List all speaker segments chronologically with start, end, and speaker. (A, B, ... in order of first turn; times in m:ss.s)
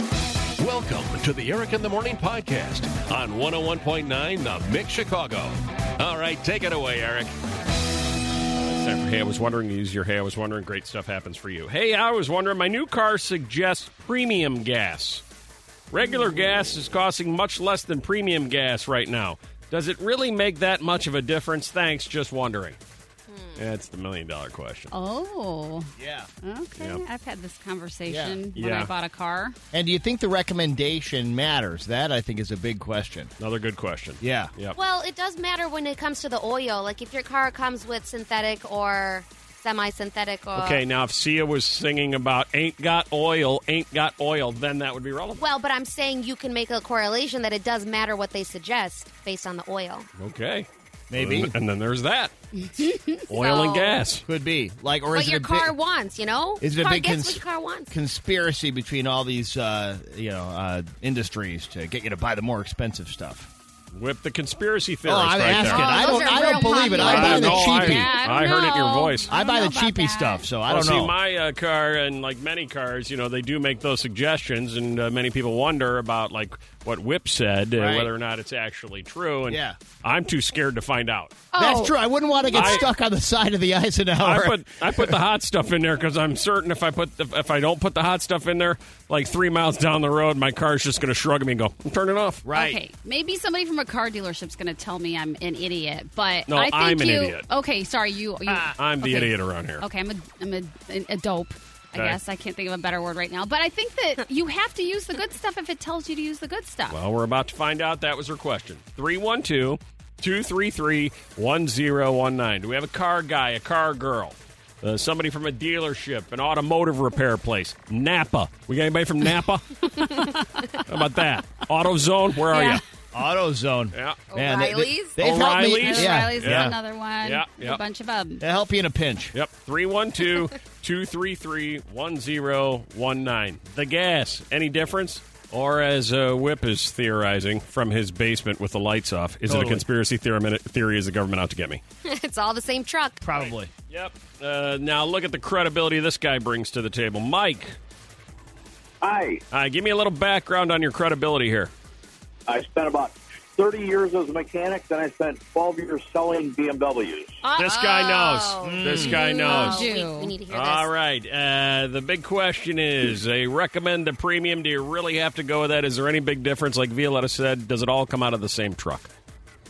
0:00.6-0:07.3 A
0:08.6-0:15.2 B
0:15.9-0:22.8 B
0:23.3-0:23.6 C
0:23.6-0:24.9 B
0:24.9-0:29.6 D
0:26.0-0:26.3 E
0:26.8-0:27.0 B
0:28.1-0:28.4 E
0:28.6-0:28.9 B
0:29.7-0:33.3 E
0:33.4-0:34.8 B
0:34.2-0:34.5 E
0:34.8-0:40.8 C
0:40.5-0:45.4 B
0:45.4-0:50.1 C
0:50.2-0:52.3 B
0:51.1-0:51.5 E
0:53.3-0:54.2 B
0:53.3-0:54.0 C
0:54.3-0:55.7 E
0:55.1-0:57.9 C
0:56.6-1:03.5 E
1:03.9-1:05.9 B
1:05.1-1:08.1 E
1:05.6-1:10.5 D
1:05.7-1:07.5 C
1:07.0-1:09.3 B
1:09.3-1:11.2 E
1:10.7-1:21.4 B
1:17.8-1:18.1 E
1:19.5-1:19.8 E
1:21.5-1:21.9 C
1:21.6-1:25.2 E
1:21.6-1:21.9 D
1:22.5-1:22.9 B
1:24.2-1:32.4 B
1:32.4-1:32.8 E
1:32.5-1:47.0 D
1:36.5-1:37.5 B
1:38.8-1:39.8 B
1:46.9-1:59.8 B
2:00.8-2:02.8 B
2:02.5-2:02.8 D
2:03.1-2:06.8 E
2:03.9-2:04.2 B
2:04.3-2:05.2 C
2:05.2-2:07.8 B
2:05.6-2:08.4 D
2:08.4-2:09.3 E
2:09.3-2:21.8 B
2:19.5-2:19.8 E
2:22.1-2:23.2 C
2:23.2-2:23.7 E
2:23.4-2:27.8 B
2:29.0-2:29.4 F
2:29.5-2:31.7 B
2:32.5-2:37.4 F
2:37.4-2:40.9 C
2:37.6-2:39.9 B
2:38.6-2:39.2 E
2:39.0-2:40.4 D
2:40.5-2:49.1 B